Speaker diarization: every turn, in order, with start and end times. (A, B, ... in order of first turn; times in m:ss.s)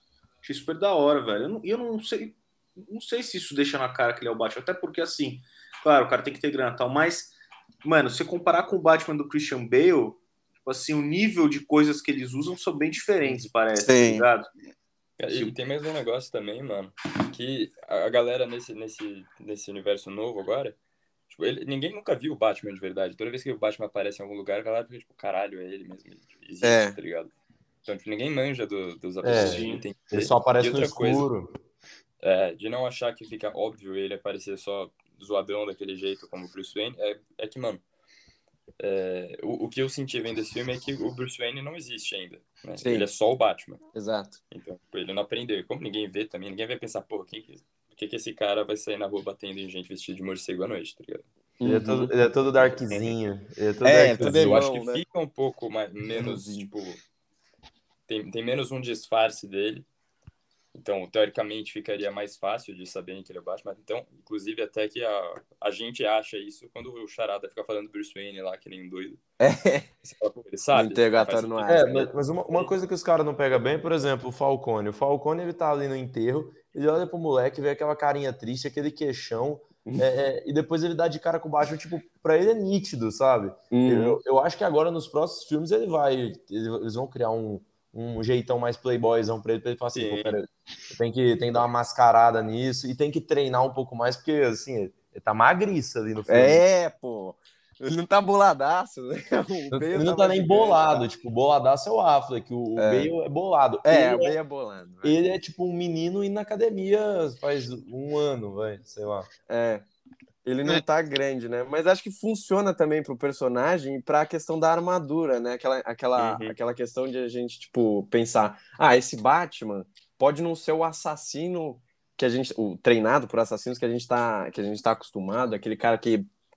0:00.4-0:14.5 A
0:13.8-0:14.3 B
0:15.2-0:20.8 C
0:15.3-0:15.6 A
0:21.3-0:27.3 C
0:26.6-0:27.0 B
0:27.9-0:31.3 C
0:29.2-0:31.5 D
0:29.3-0:29.8 A
0:32.2-0:37.8 C
0:38.8-0:43.8 C
0:42.8-0:43.1 B
0:43.9-0:44.4 B
0:44.5-0:51.3 C
0:51.6-0:52.1 B
0:51.6-0:54.5 D
0:52.6-0:53.1 C
0:53.8-0:55.0 B
0:54.2-0:57.0 C
0:58.1-0:59.9 C
1:00.7-1:09.2 C
1:09.4-1:09.9 B
1:10.0-1:12.7 C
1:10.7-1:12.1 B
1:11.7-1:36.6 D
1:23.7-1:24.2 B
1:29.9-1:30.4 C
1:36.3-1:41.0 B
1:39.7-1:44.4 D
1:42.8-1:43.1 B
1:43.8-1:45.2 B
1:45.0-1:49.3 D
1:49.5-1:49.8 B
1:50.4-2:06.3 B
1:56.2-1:56.5 C